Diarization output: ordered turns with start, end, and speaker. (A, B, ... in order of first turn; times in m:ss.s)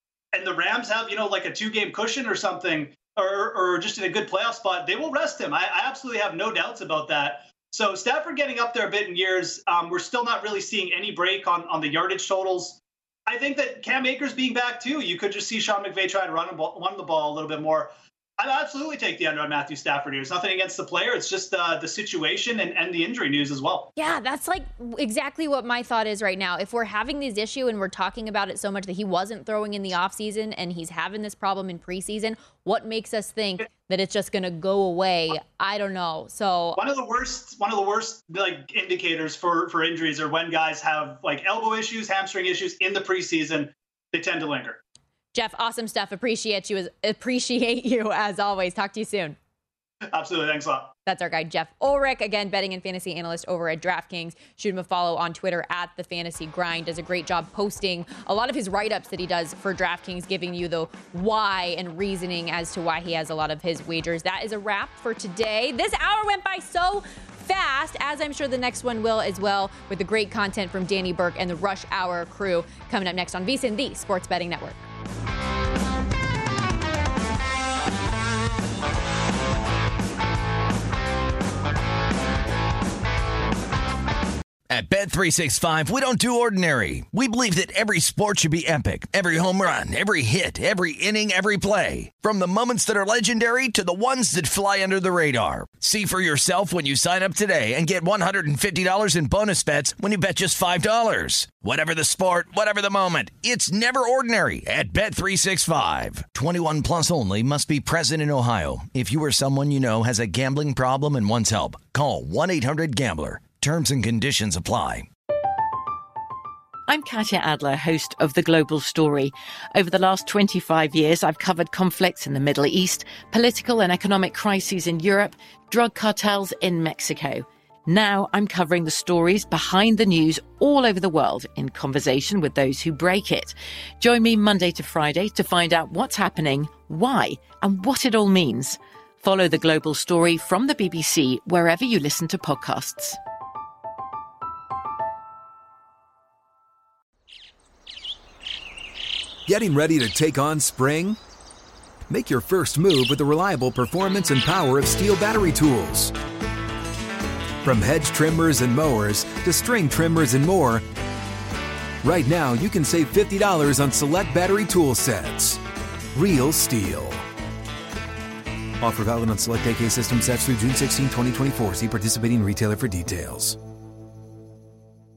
0:00.3-0:23.9 A
0:24.0-0:36.8 B
0:36.8-0:44.8 A
0:45.3-0:49.4 B
0:50.1-0:50.9 A
0:51.1-1:14.8 B
1:24.7-1:55.1 C
1:56.9-2:23.2 D
2:29.5-2:31.2 E
2:32.1-2:36.1 E
2:37.6-2:40.8 E
2:42.0-2:45.6 E
2:46.2-2:47.2 E
2:48.8-2:53.6 E